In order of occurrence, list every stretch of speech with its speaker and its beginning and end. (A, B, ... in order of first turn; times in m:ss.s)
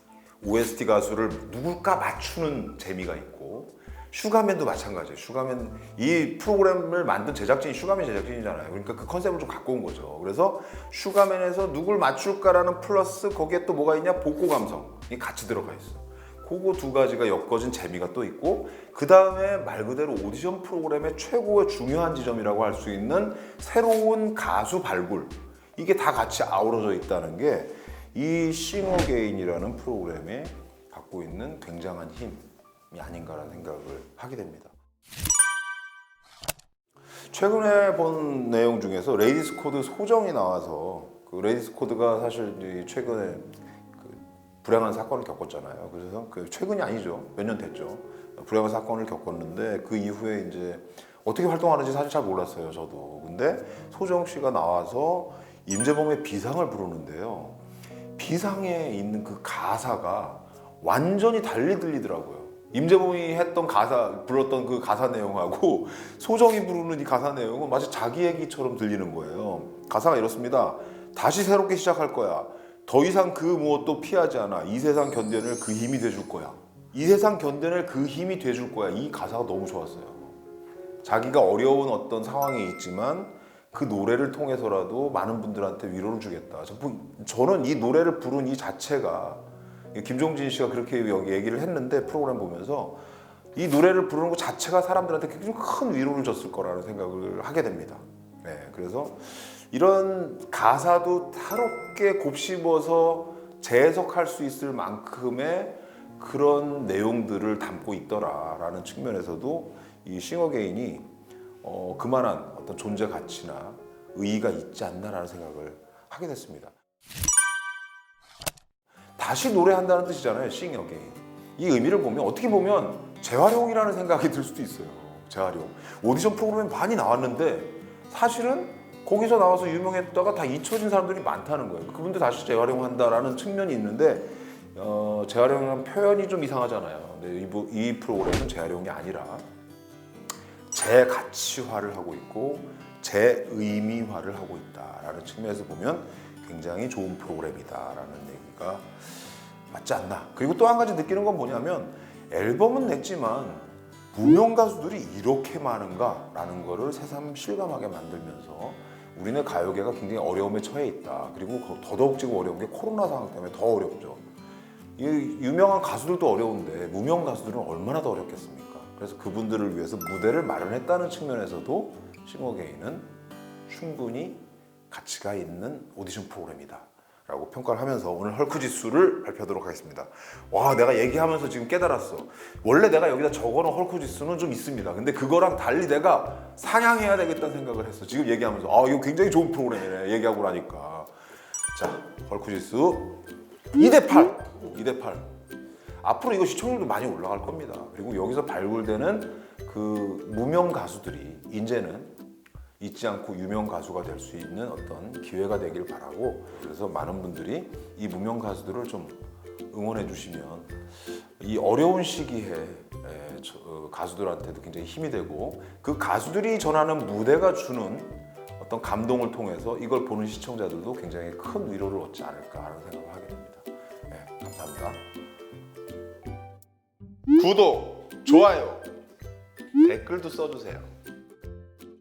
0:00.4-0:34.7 A
0:37.3-0:57.6 A
0:58.2-1:20.4 A
1:21.0-1:33.0 A
1:33.5-1:51.1 A
1:51.6-1:56.7 A
1:59.2-2:19.4 A
2:20.7-2:44.2 A
2:45.0-2:53.1 A
2:53.7-3:11.1 A
3:11.7-3:15.3 A
3:16.0-3:22.2 A
3:22.8-3:45.0 A
3:47.3-3:48.9 A
3:49.8-3:50.9 A